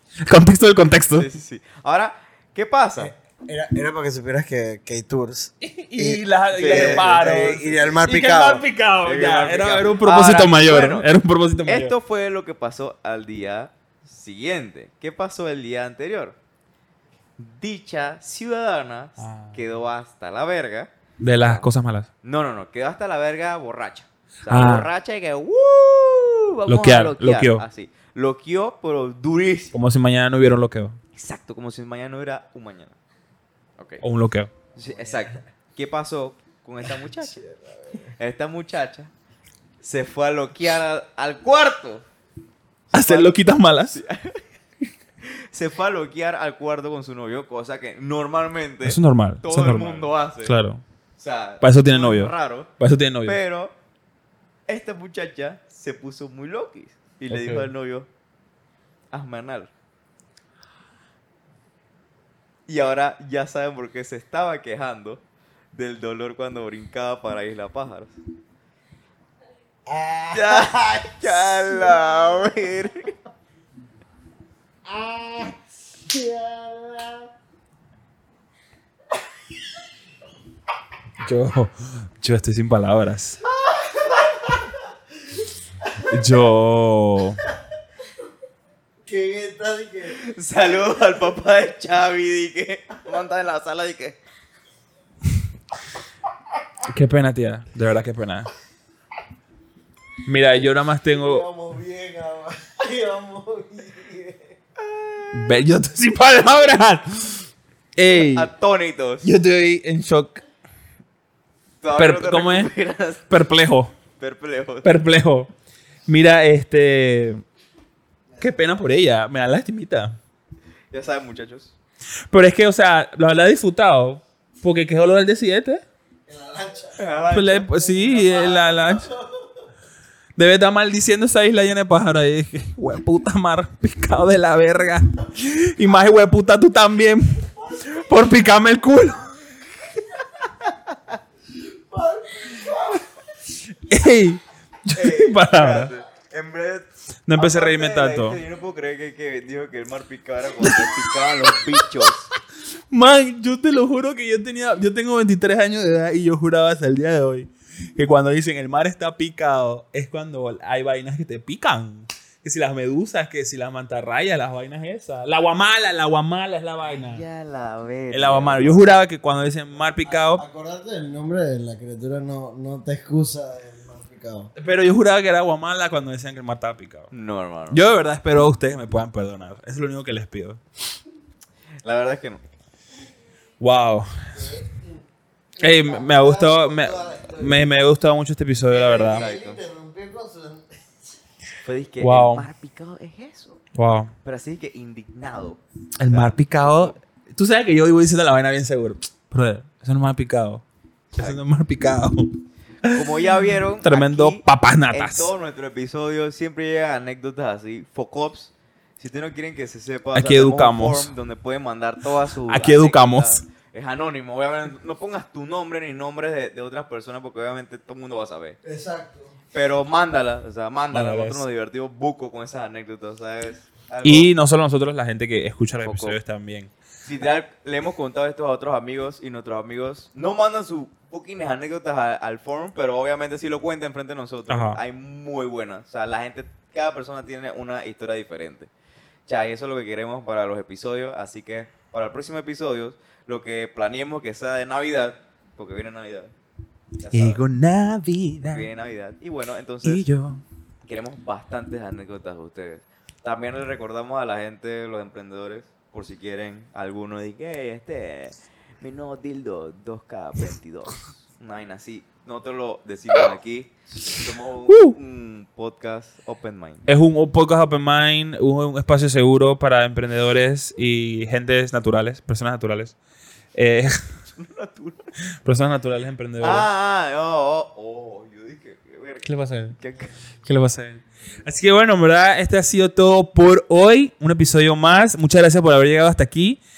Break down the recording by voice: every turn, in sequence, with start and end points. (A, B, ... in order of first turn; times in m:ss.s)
0:00.2-0:01.3 A
0:01.1-0:03.1 B
0:03.0-0:08.6 C
0:05.6-0:11.9 A
0:06.5-0:07.6 B
0:09.0-0:11.1 B
0:11.6-0:16.4 B
0:17.4-0:20.9 B
0:19.2-0:19.6 A
0:21.2-0:22.1 A
0:22.2-0:29.7 B
0:24.5-0:24.9 A
0:26.7-0:27.6 A
0:29.7-0:31.0 A
0:31.1-0:33.0 B
0:33.8-0:34.0 B
0:34.0-0:34.5 A
0:34.7-0:37.4 B
0:37.3-0:38.1 C
0:38.2-0:39.1 B
0:39.8-0:42.0 B
0:42.9-0:44.4 B
0:42.9-0:44.0 A
0:45.2-0:50.5 B
0:48.8-0:50.8 A
0:51.2-0:52.7 B
0:51.6-0:53.4 A
0:53.2-0:53.7 B
0:54.7-0:58.1 B
0:57.3-0:57.7 A
0:59.1-0:59.7 B
1:02.7-1:05.2 B
1:05.7-1:08.2 B
1:09.9-1:12.7 C
1:10.3-1:13.1 B
1:14.8-1:17.3 C
1:21.2-1:23.4 A
1:23.5-1:24.7 C
1:26.1-1:27.4 A
1:29.0-1:30.2 C
1:30.1-1:34.2 B
1:36.8-1:38.5 A
1:40.2-1:41.5 A
1:41.1-1:44.6 C
1:44.8-1:45.4 B
1:45.3-1:48.5 A
1:48.2-1:49.3 B
1:49.2-1:50.4 A
1:51.8-1:53.3 B
1:52.0-1:52.7 A
1:53.3-1:53.9 A
1:54.2-1:54.9 B
1:54.8-1:55.5 A
1:56.1-1:57.4 A
1:58.3-1:58.6 C
1:58.4-2:00.2 A
2:00.9-2:01.7 B
2:02.3-2:05.8 A
2:06.3-2:07.0 C
2:07.0-2:08.7 B
2:07.3-2:09.1 A
2:08.7-2:09.4 C
2:10.4-2:19.3 A
2:21.9-2:23.0 C
2:23.8-2:25.9 A
2:24.9-2:32.3 B
2:27.3-2:28.4 A
2:30.6-2:30.9 A
2:32.9-2:47.2 A
2:46.8-2:48.9 B
2:48.1-2:50.4 A
2:50.1-2:54.5 C
2:54.6-2:57.1 A
2:57.1-2:57.8 B
2:57.7-3:00.6 A
3:01.8-3:02.4 B
3:03.6-3:04.6 A
3:04.3-3:05.0 C
3:05.6-3:07.7 C
3:05.6-3:09.2 A
3:08.7-3:10.9 C
3:09.1-3:09.6 B
3:11.6-3:13.6 B
3:12.0-3:12.5 A
3:13.7-3:14.1 A
3:14.2-3:16.9 B
3:16.0-3:20.6 A
3:21.1-3:21.4 B
3:21.2-3:23.0 A
3:22.9-3:38.6 B
3:23.8-3:25.3 A
3:30.1-3:31.1 A
3:32.5-3:33.4 A
3:38.6-3:39.3 C
3:39.5-3:44.3 B
3:40.9-3:41.4 A
3:44.0-3:46.7 A
3:45.8-3:46.2 B
3:47.0-3:58.7 B
3:54.5-3:54.8 A
3:59.3-4:06.3 B
4:07.0-4:07.4 B
4:07.0-4:08.7 A
4:08.5-4:10.0 B
4:09.8-4:10.4 A
4:10.8-4:26.8 B
4:24.7-4:25.0 A
4:26.9-4:33.0 A
4:33.5-4:34.0 A
4:34.3-4:35.1 B
4:35.4-4:36.7 A
4:36.4-4:40.1 B
4:39.2-4:39.8 A
4:40.4-4:46.6 A